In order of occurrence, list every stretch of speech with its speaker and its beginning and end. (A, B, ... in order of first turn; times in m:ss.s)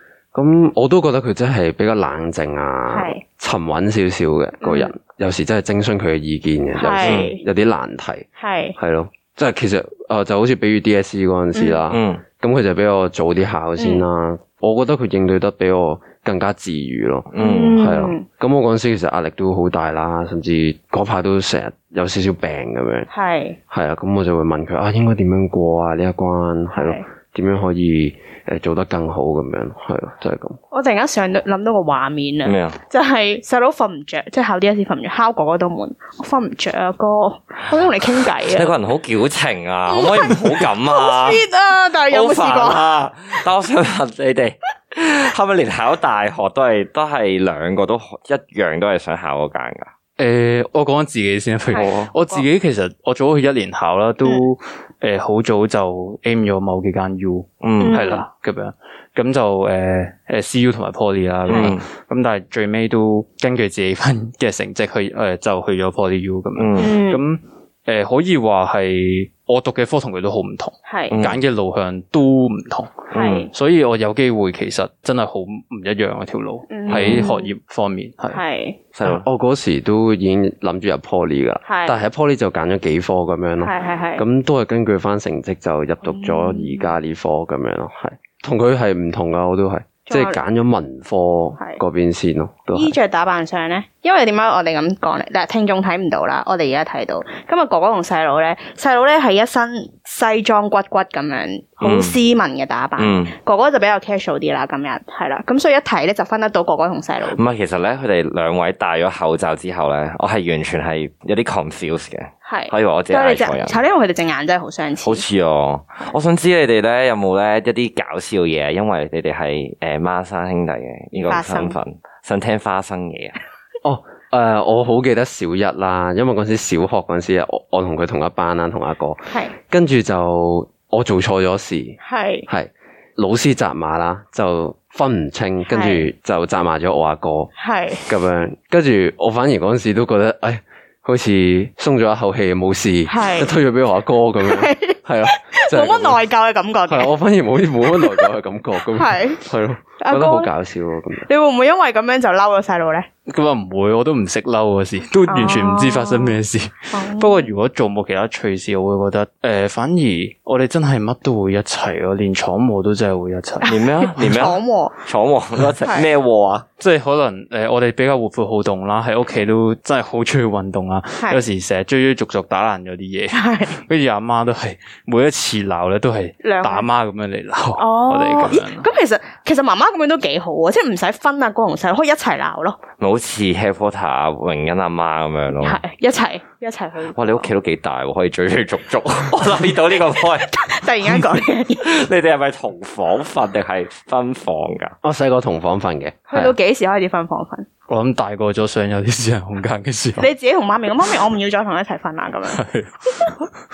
0:00.3-0:08.3 A
0:02.9-0:03.2 B
0:04.6-0:04.9 B
0:06.8-0:07.4 B
0:07.0-0:07.3 C
0:08.4-0:08.8 B
0:08.8-0:23.1 A
0:11.6-0:11.8 B
0:11.9-0:12.2 C
0:13.8-0:14.0 B
0:17.3-0:17.8 C
0:17.4-0:18.2 B
0:23.1-0:23.6 B
0:23.7-0:30.6 A
0:26.8-0:27.0 B
0:30.7-0:38.7 B
0:32.4-0:32.8 C
0:38.4-0:41.4 C
0:39.9-0:42.8 B
0:42.1-0:49.9 C
0:50.2-1:18.4 D
0:51.7-0:52.4 B
0:51.7-0:52.1 C
0:57.6-0:58.0 C
0:57.8-0:58.2 B
1:01.5-1:01.8 C
1:01.5-1:01.8 B
1:06.6-1:07.0 C
1:06.8-1:07.2 B
1:10.9-1:11.2 B
1:11.1-1:11.4 C
1:13.1-1:13.4 C
1:13.1-1:13.5 B
1:16.7-1:17.5 B
1:16.9-1:17.3 C
1:18.3-1:18.8 B
1:19.0-1:19.2 C
1:19.0-1:32.9 A
1:21.6-1:22.0 B
1:23.6-1:24.2 B
1:26.0-1:26.9 B
1:30.1-1:30.4 B
1:32.7-1:47.4 B
1:41.8-1:42.2 C
1:43.0-1:43.3 C
1:47.3-1:53.8 C
1:52.5-1:55.2 B
1:55.0-2:03.4 C
2:01.3-2:01.8 B
2:03.8-2:17.5 A
2:09.3-2:09.6 B
2:12.0-2:12.5 B
2:15.7-2:16.1 B
2:17.6-2:18.1 B
2:18.1-2:26.2 A
2:23.1-2:23.5 B
2:24.4-2:27.1 B
2:26.9-2:31.3 A
2:28.0-2:28.3 B
2:28.9-2:29.4 B
2:30.0-2:30.5 B
2:31.3-2:33.1 B
2:33.3-2:44.4 D
2:35.3-2:36.4 B
2:36.9-2:37.5 B
2:43.6-2:45.0 B
2:43.7-2:46.7 C
2:46.8-2:58.9 D
2:53.3-2:53.8 B
2:56.4-2:56.9 B
2:57.8-3:02.8 B
3:03.0-3:05.8 C
3:05.6-3:07.5 B
3:07.2-3:10.6 C
3:10.5-3:11.9 B
3:11.8-3:14.9 C
3:15.0-3:16.6 A
3:16.3-3:17.7 B
3:17.9-3:20.3 D
3:20.2-3:22.6 B
3:22.5-3:23.4 D